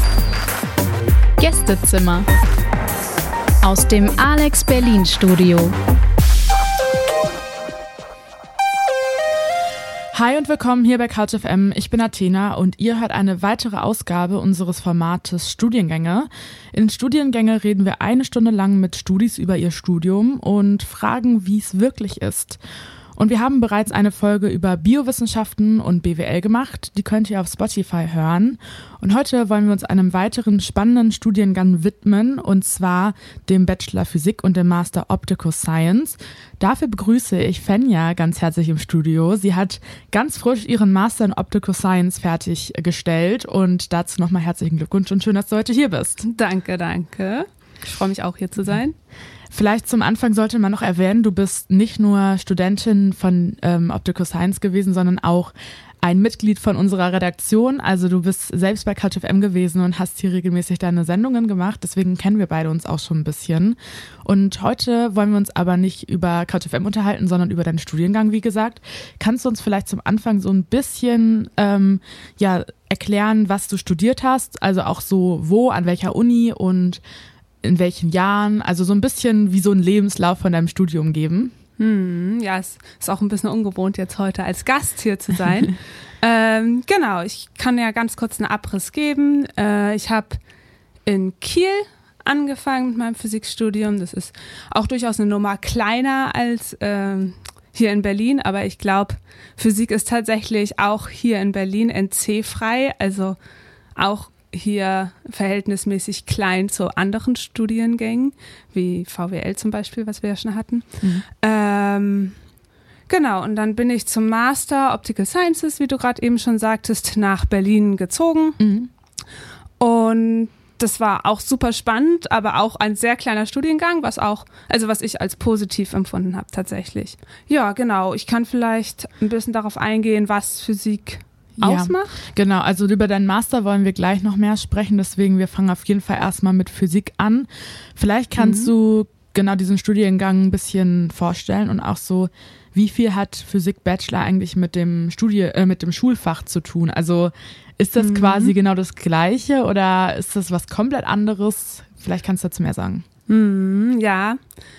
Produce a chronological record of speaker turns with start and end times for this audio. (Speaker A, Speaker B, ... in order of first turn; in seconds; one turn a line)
Speaker A: 1.4-2.3
Speaker A: 3.6-5.8
Speaker B: 10.1-22.6
Speaker B: 23.2-46.2
Speaker C: 46.2-49.0
Speaker B: 49.5-77.0
Speaker B: 77.6-81.5
Speaker C: 81.8-90.4
Speaker C: 91.0-103.4
Speaker C: 104.0-112.4
Speaker C: 113.1-118.6
Speaker B: 118.6-118.9
Speaker C: 119.8-132.2
Speaker B: 131.6-153.1
Speaker C: 138.4-138.7
Speaker C: 148.0-148.5
Speaker C: 153.3-154.4